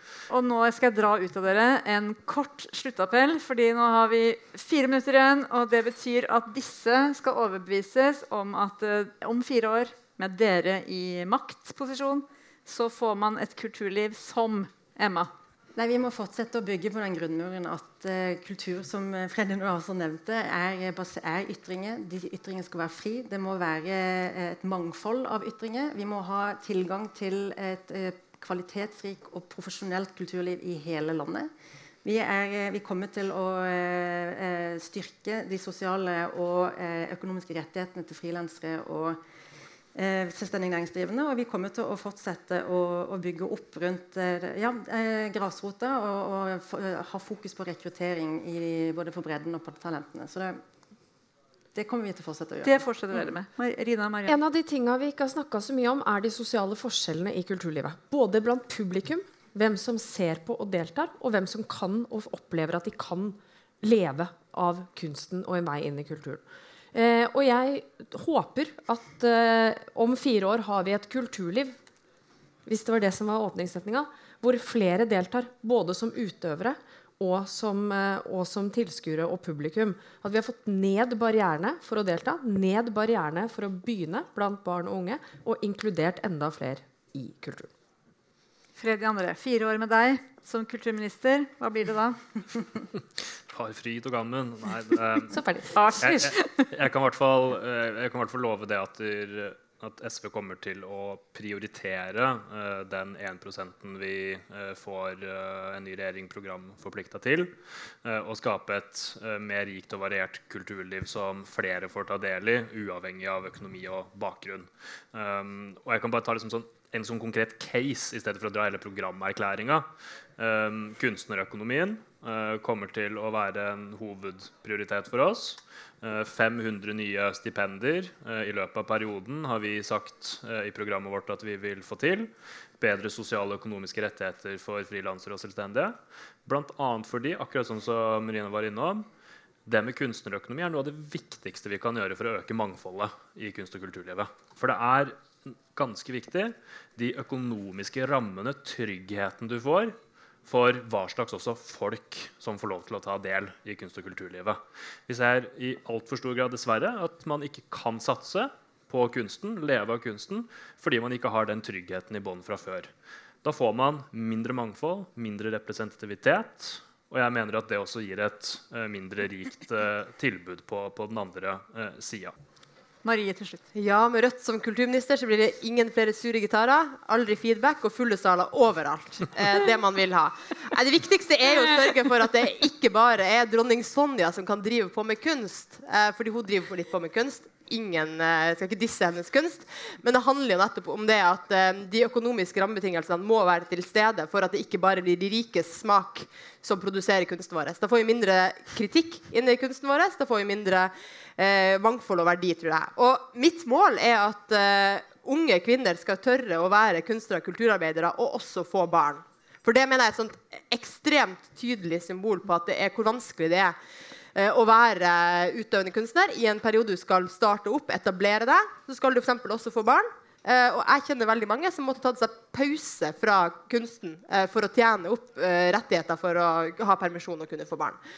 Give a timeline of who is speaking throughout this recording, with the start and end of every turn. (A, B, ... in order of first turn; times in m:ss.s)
0:00.3-0:15.3 A
0:15.8-0:31.5 B
0:32.0-0:39.2 B
0:39.9-0:50.6 B
0:51.7-0:52.8 B
0:52.6-0:54.4 A
0:54.3-1:06.4 C
1:06.9-1:11.8 C
1:12.6-1:27.7 C
1:28.8-1:32.2 A
1:33.5-1:35.4 D
1:35.3-1:36.3 C
1:35.7-1:36.7 A
1:36.0-1:59.9 D
2:00.4-2:19.0 D
2:19.6-2:42.9 D
2:43.4-2:52.3 D
2:53.0-2:53.6 A
2:53.7-3:33.8 E
3:34.3-3:48.0 E